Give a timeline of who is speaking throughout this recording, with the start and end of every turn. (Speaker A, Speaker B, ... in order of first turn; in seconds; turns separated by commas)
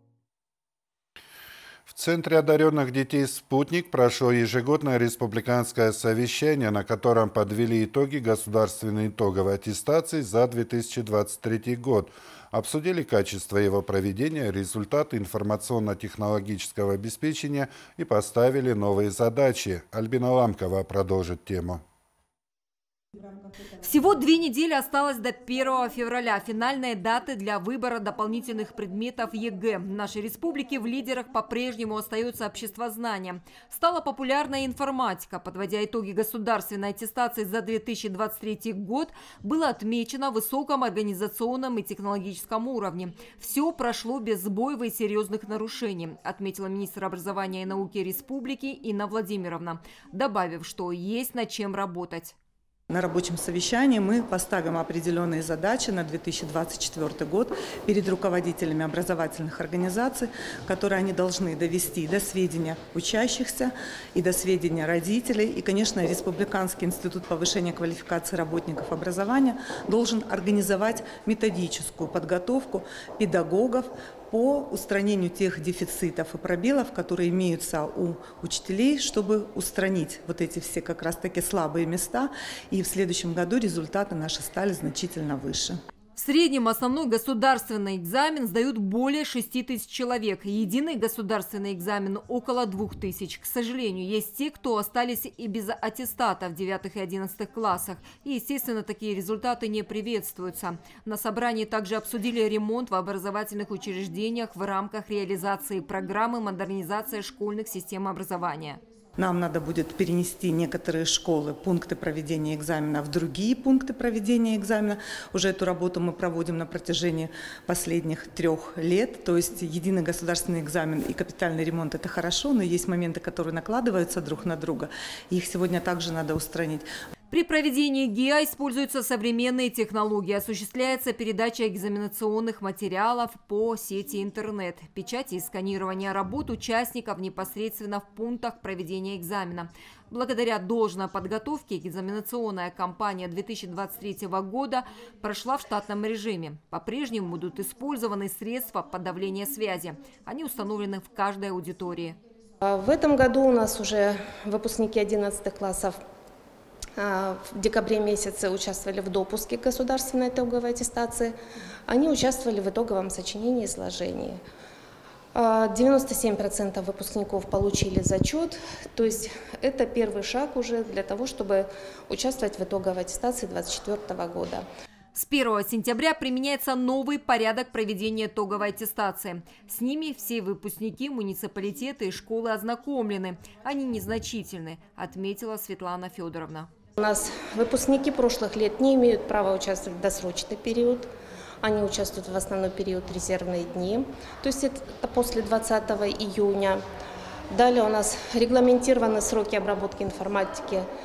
Speaker A: 1.9-21.8, Speaker B: 23.8-52.3, Speaker C: 52.9-85.8, Speaker B: 86.2-108.8, Speaker C: 109.2-126.8, Speaker B: 127.3-152.2, Speaker D: 152.6-156.0, Speaker D: 157.0-161.3, Speaker D: 161.9-164.4, Speaker D: 165.3-174.6, Speaker B: 175.1-186.7, Speaker D: 186.9-196.8, Speaker D: 197.5-200.9